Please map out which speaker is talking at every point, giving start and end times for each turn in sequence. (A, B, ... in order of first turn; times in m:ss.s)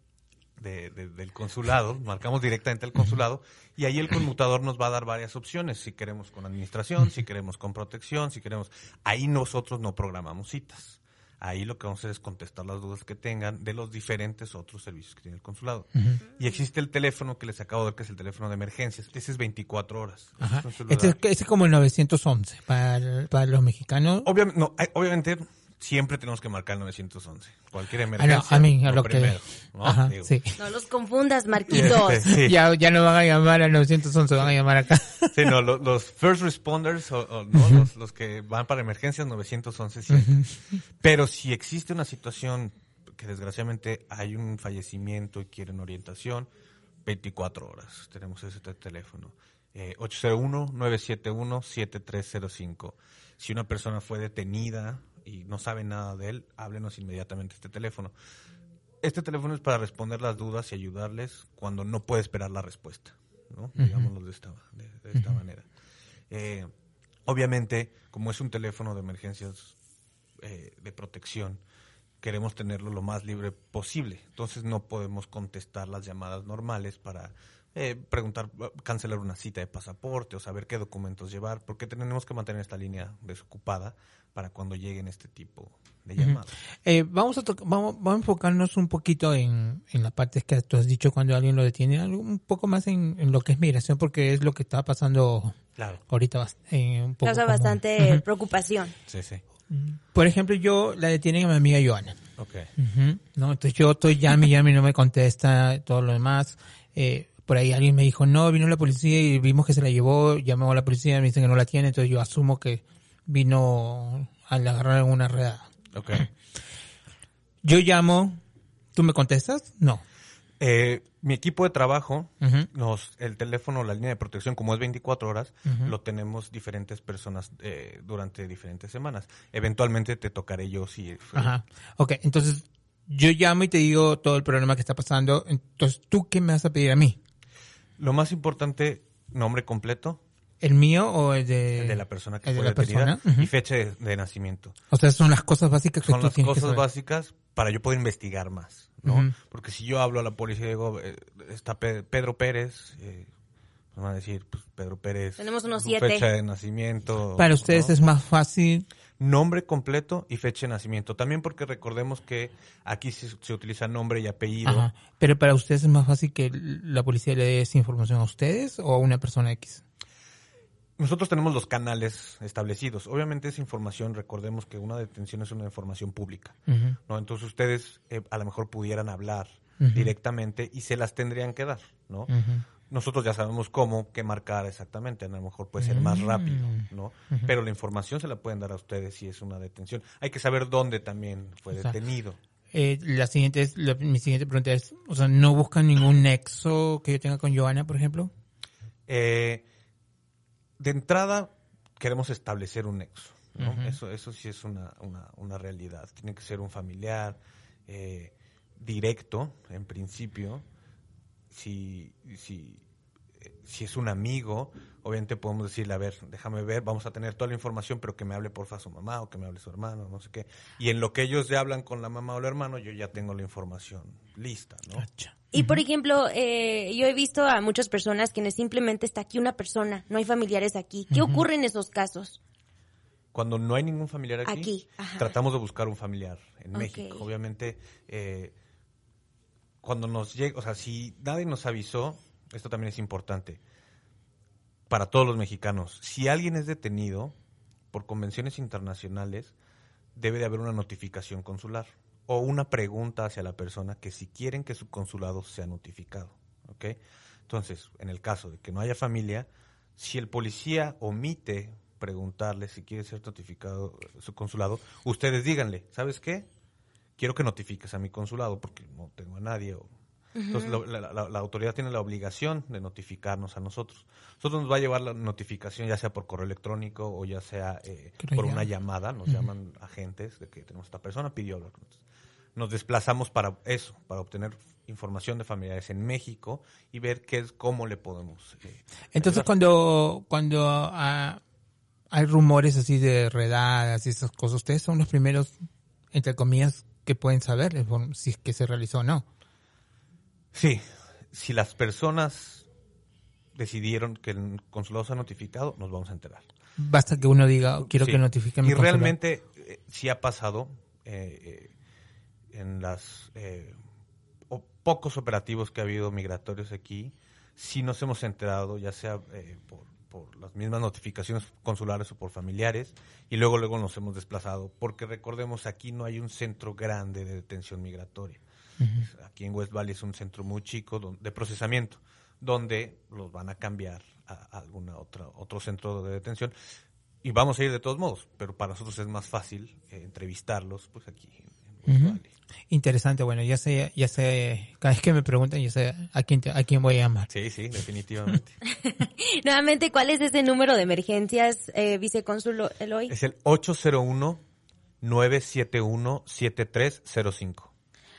0:00.6-0:21.2 A
0:16.0-0:16.2 B
0:20.4-0:24.3 B
0:24.2-0:30.4 A
0:28.2-0:30.6 B
0:30.6-0:32.3 C
0:31.7-0:32.6 A
0:31.8-0:35.5 B
0:35.3-0:40.5 A
0:37.6-0:37.8 B
0:40.1-0:40.5 B
0:41.0-0:46.5 A
0:47.0-0:58.1 A
0:59.0-1:05.7 A
1:03.8-1:04.1 B
1:06.3-1:06.7 A
1:07.2-1:09.8 A
1:10.4-1:11.6 A
1:12.2-1:26.5 A
1:26.2-1:35.6 B
1:36.1-1:38.2 B
1:37.2-1:39.0 C
1:39.1-1:39.4 A
1:39.7-1:42.2 B
1:42.4-1:42.7 A
1:42.8-1:56.3 B
1:55.9-1:56.3 A
1:57.6-1:58.4 B
1:59.0-2:00.0 B
2:00.6-2:11.5 A
2:02.4-2:02.7 B
2:05.7-2:05.9 B
2:11.4-2:17.2 B
2:18.0-2:20.2 A
2:20.6-2:23.5 B
2:21.8-2:24.8 A
2:24.9-2:26.8 B
2:26.0-2:33.3 A
2:29.0-2:29.3 B
2:33.9-2:37.9 A
2:35.4-2:36.2 C
2:37.4-2:38.9 B
2:39.2-2:44.9 A
2:44.6-2:49.8 B
2:51.0-3:02.3 A
2:56.7-2:57.0 B
2:59.8-3:00.1 B
3:02.3-3:02.6 B
3:02.9-3:12.4 A
3:05.8-3:07.5 B
3:12.7-3:18.3 B
3:19.1-3:19.6 A
3:20.8-3:30.6 A
3:23.6-3:24.0 B
3:31.5-3:32.8 A
3:33.4-3:45.0 A
3:45.0-3:45.8 B
3:45.5-3:52.4 C
3:51.1-3:51.4 B
3:53.3-3:58.5 A
3:54.5-3:55.4 C
3:56.7-3:57.2 C
3:59.8-4:03.6 A
4:04.9-4:07.4 A
4:07.9-4:09.5 A
4:10.1-4:26.5 A
4:27.2-4:29.9 A
4:30.4-4:30.8 C
4:30.5-4:42.0 A
4:38.2-4:38.6 B
4:42.5-4:49.5 A
4:49.1-4:51.4 B
4:52.1-4:55.5 B
4:56.1-4:59.2 B
5:00.5-5:02.6 A
5:03.5-5:06.5 A
5:06.8-5:09.1 B
5:07.8-5:11.7 A
5:12.5-5:13.8 A
5:14.5-5:28.4 A
5:28.8-5:29.1 B
5:29.0-5:36.5 A
5:37.2-5:42.3 A
5:41.9-5:47.3 B
5:47.3-5:48.6 A
5:48.7-5:53.1 C
5:53.1-5:54.4 A
5:55.0-5:57.7 A